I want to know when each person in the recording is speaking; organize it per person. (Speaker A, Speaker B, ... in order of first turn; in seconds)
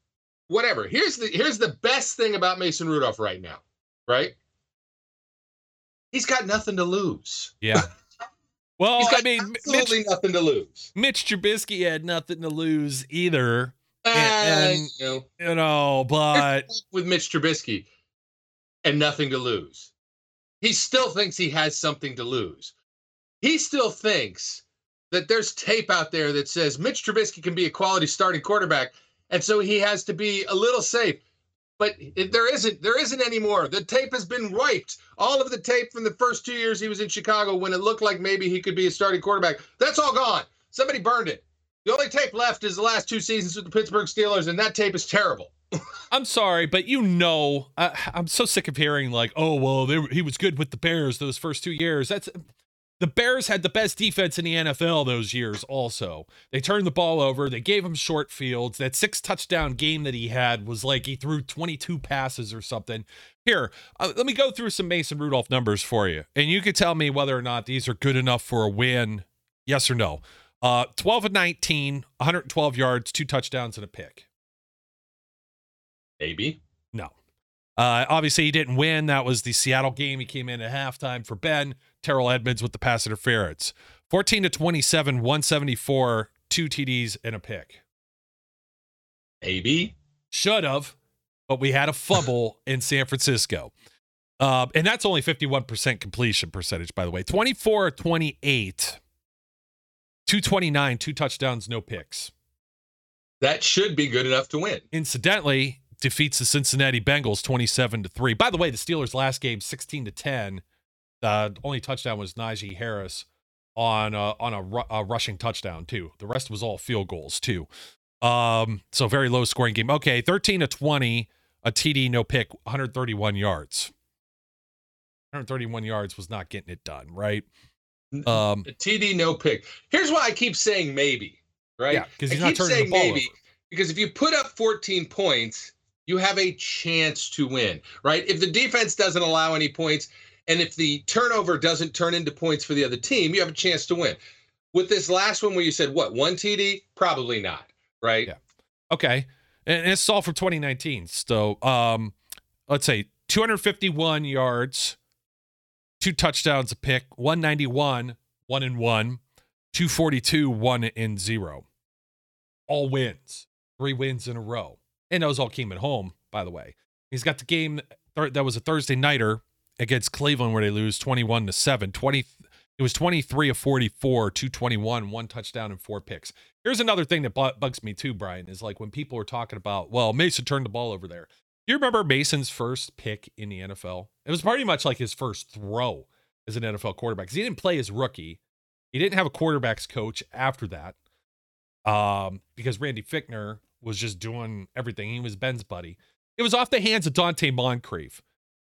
Speaker A: 0.5-4.3, 6.1-7.8, 9.0-10.9, 14.0-15.3, 16.3-17.9, 18.8-19.9, 20.6-22.7, 23.4-31.2, 31.8-45.8, 76.2-76.6, 89.4-90.0, 103.4-104.8, 128.1-144.2, 144.7-148.3
Speaker B: 7.6-7.9, 8.8-9.9, 10.9-16.7, 46.1-52.4, 53.0-74.3, 77.8-87.8, 90.3-91.0, 91.5-93.7, 94.4-99.0, 100.3-102.3, 104.9-110.6, 111.2-117.7, 118.2-123.9, 125.3-127.5, 128.3-128.7, 131.9-133.3, 148.9-152.2, 152.7-155.0, 156.0-159.2, 159.7-161.7, 162.7-188.4, 188.9-191.0, 191.9-198.2